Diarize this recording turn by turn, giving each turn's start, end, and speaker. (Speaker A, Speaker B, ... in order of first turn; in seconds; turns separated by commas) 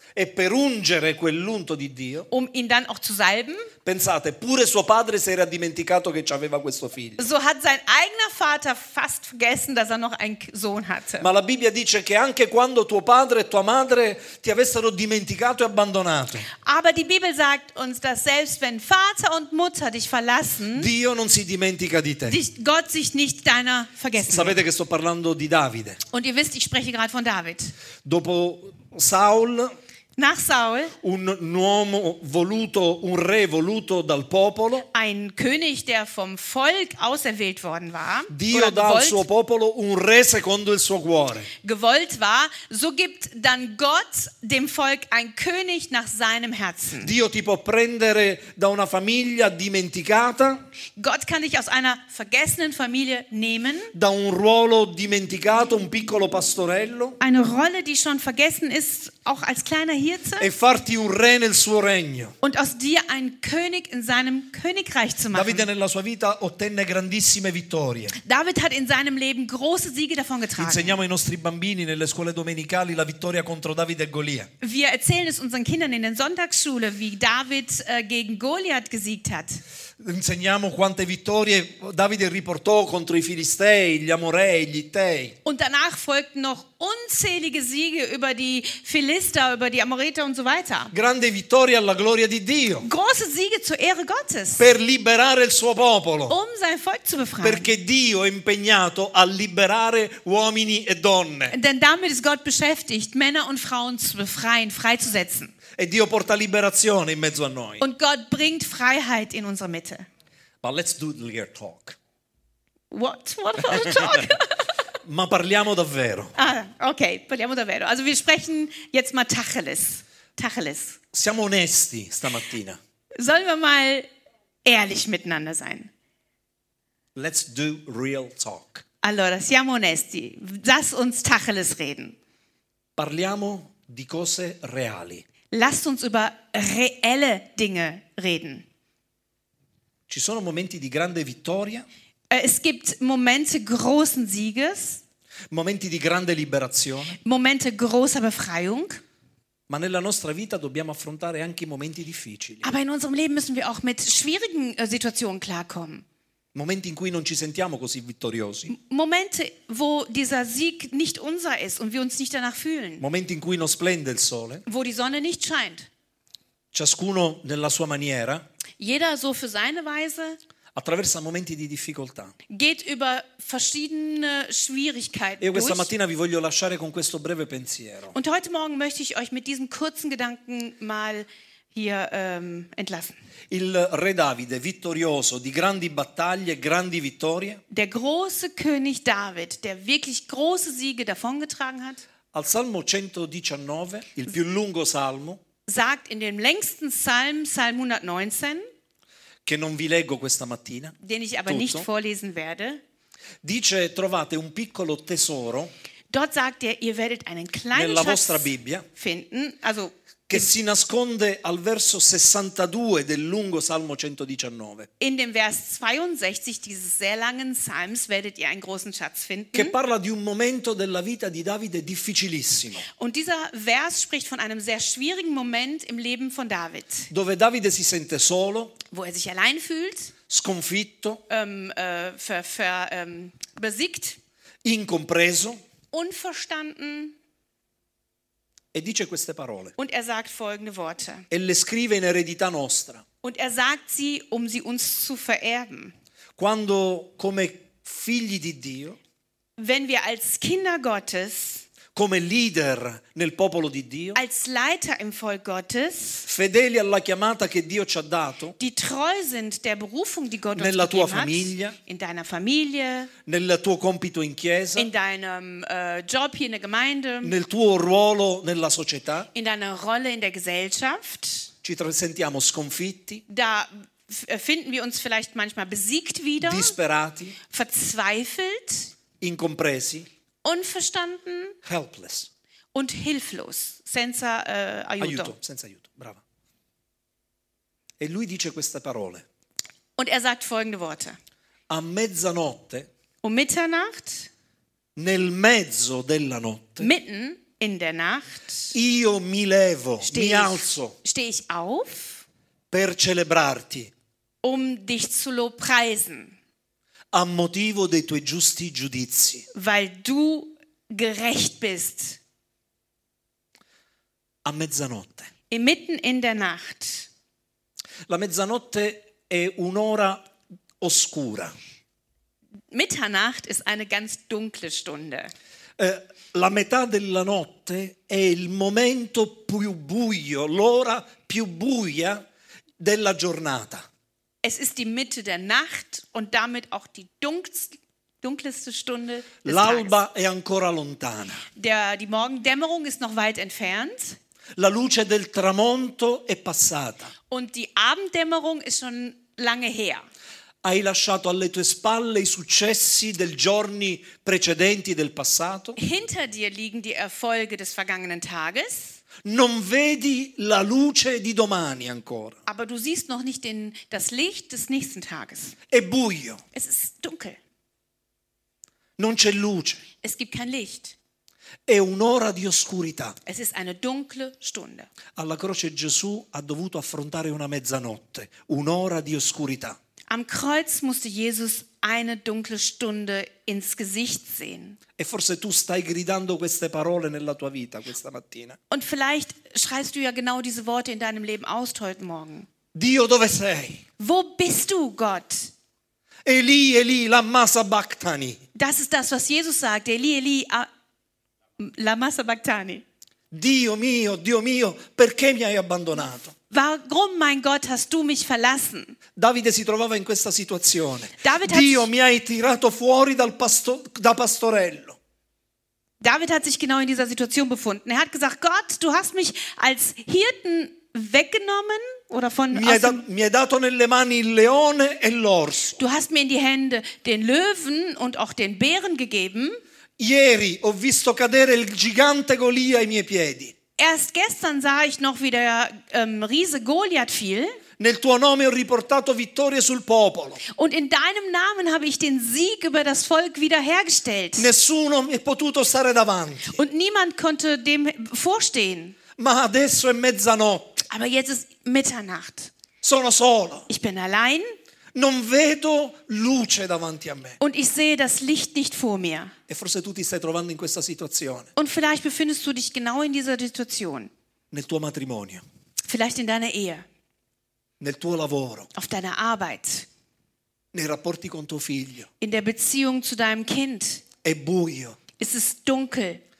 Speaker A: 0.1-2.3, Speaker B: 2.3-3.7, Speaker A: 3.8-7.2, Speaker B: 7.2-11.3, Speaker A: 11.2-16.5, Speaker B: 16.6-20.9, Speaker A: 20.7-22.4, Speaker B: 22.3-24.6, Speaker A: 24.2-26.0, Speaker B: 26.1-27.7, Speaker A: 28.0-29.7, Speaker B: 30.2-30.9, Speaker A: 31.0-34.9, Speaker B: 34.9-39.2, Speaker A: 38.3-41.5, Speaker B: 41.6-47.1, Speaker A: 47.0-50.6, Speaker B: 51.0-53.9, Speaker A: 53.9-57.2, Speaker B: 57.2-60.5, Speaker A: 60.4-62.3, Speaker B: 62.4-65.7, Speaker A: 65.3-68.1, Speaker B: 68.2-71.0, Speaker A: 70.6-74.5, Speaker B: 74.6-79.6, Speaker A: 80.0-85.3, Speaker B: 85.4-90.9, Speaker A: 90.9-92.8, Speaker B: 92.8-94.6, Speaker A: 94.6-96.3, Speaker B: 96.3-97.7, Speaker A: 97.4-101.5, Speaker B: 101.5-105.5, Speaker A: 105.8-107.8, Speaker B: 107.8-110.1, Speaker A: 110.6-112.0, Speaker B: 112.9-114.6, Speaker A: 113.6-114.3, Speaker A: 115.0-116.3, Speaker B: 116.3-121.0, Speaker A: 121.1-122.8, Speaker B: 123.2-124.1, Speaker B: 124.6-125.9, Speaker A: 127.1-128.8, Speaker B: 129.0-132.2, Speaker A: 133.0-135.2, Speaker B: 135.5-138.7, Speaker A: 140.1-141.8, Speaker B: 142.3-145.0, Speaker A: 145.5-147.2, Speaker B: 147.2-149.0, Speaker A: 149.7-152.7, Speaker B: 152.6-156.0, Speaker A: 156.5-158.7, Speaker B: 158.7-163.0, Speaker A: 163.0-164.6, Speaker B: 164.7-165.9, Speaker A: 166.7-168.4, Speaker B: 168.8-170.4, Speaker A: 170.7-172.3, Speaker B: 172.5-175.9, Speaker A: 175.4-178.1, Speaker B: 178.1-183.2, Speaker A: 183.5-187.6, Speaker B: 187.7-192.0, Speaker A: 192.3-195.4, Speaker B: 195.7-198.7, Speaker A: 199.4-200.9, Speaker B: 201.0-202.8, Speaker A: 201.5-201.9, Speaker A: 203.4-205.7, Speaker B: 206.1-210.5, Speaker A: 207.7-208.8, Speaker A: 210.3-214.9, Speaker B: 215.0-219.7, Speaker A: 219.5-222.8, Speaker B: 222.9-227.1, Speaker A: 227.1-228.8, Speaker B: 228.9-230.1, Speaker A: 230.3-231.2, Speaker B: 231.3-234.2, Speaker A: 234.6-235.6, Speaker B: 235.9-237.1, Speaker A: 238.7-239.7, Speaker B: 239.8-241.3, Speaker A: 241.3-243.0, Speaker B: 243.2-245.9, Speaker A: 246.4-249.0, Speaker B: 249.6-251.7, Speaker A: 251.9-254.2, Speaker B: 254.1-256.2, Speaker A: 256.2-258.6, Speaker B: 258.6-263.1, Speaker A: 260.5-261.8, Speaker A: 263.2-264.9, Speaker B: 264.7-267.3, Speaker A: 267.2-269.3, Speaker B: 269.3-271.5, Speaker A: 271.6-273.2, Speaker B: 273.3-276.8, Speaker A: 276.4-277.4, Speaker B: 277.5-278.9, Speaker A: 279.2-280.1, Speaker B: 280.4-281.6, Speaker A: 281.6-282.3, Speaker B: 282.7-285.3, Speaker A: 285.0-286.2, Speaker A: 288.0-289.2, Speaker B: 290.0-291.2, Speaker A: 291.7-292.9, Speaker B: 293.2-294.3, Speaker A: 294.9-296.9, Speaker B: 296.8-298.7, Speaker A: 298.7-300.9, Speaker B: 300.0-302.2, Speaker A: 302.7-303.9, Speaker B: 304.4-306.4, Speaker A: 307.1-309.5, Speaker B: 309.5-312.2, Speaker A: 314.4-315.3, Speaker B: 315.5-317.1, Speaker A: 318.1-320.2, Speaker A: 320.8-321.5, Speaker B: 322.7-325.3, Speaker A: 325.8-332.2, Speaker A: 332.8-333.8, Speaker B: 334.4-340.0, Speaker A: 339.4-341.4, Speaker B: 341.6-344.2, Speaker A: 344.6-347.1, Speaker B: 347.3-350.1, Speaker A: 350.6-355.8, Speaker B: 355.8-359.0, Speaker A: 359.2-362.4, Speaker B: 362.4-365.6, Speaker A: 365.7-366.4, Speaker B: 366.5-367.4, Speaker A: 369.0-369.8, Speaker B: 370.0-370.9, Speaker A: 371.7-373.2, Speaker B: 373.2-374.9, Speaker A: 375.1-379.8, Speaker B: 380.1-384.8, Speaker A: 385.0-388.6, Speaker B: 388.7-392.5, Speaker A: 392.7-393.8, Speaker B: 394.0-395.5, Speaker A: 396.2-398.4, Speaker B: 398.5-400.7, Speaker B: 401.6-402.8, Speaker A: 403.3-406.3, Speaker B: 406.5-408.9, Speaker A: 409.1-415.0, Speaker B: 411.2-411.9, Speaker B: 416.0-423.0, Speaker A: 422.5-425.8, Speaker B: 425.8-429.6, Speaker A: 430.0-433.5, Speaker B: 433.8-437.6, Speaker A: 437.8-440.4, Speaker B: 440.5-444.5, Speaker A: 444.4-446.6, Speaker B: 446.5-448.9, Speaker A: 449.2-450.8, Speaker B: 450.9-452.5, Speaker A: 452.8-453.7, Speaker B: 453.7-454.5, Speaker A: 454.9-457.4, Speaker B: 457.4-459.3, Speaker A: 459.5-461.5, Speaker B: 461.6-464.1, Speaker A: 464.5-465.4, Speaker B: 465.9-466.9, Speaker A: 467.8-468.7, Speaker B: 468.7-469.9, Speaker A: 470.7-472.1, Speaker B: 472.2-474.0, Speaker A: 474.2-475.0, Speaker B: 475.2-476.2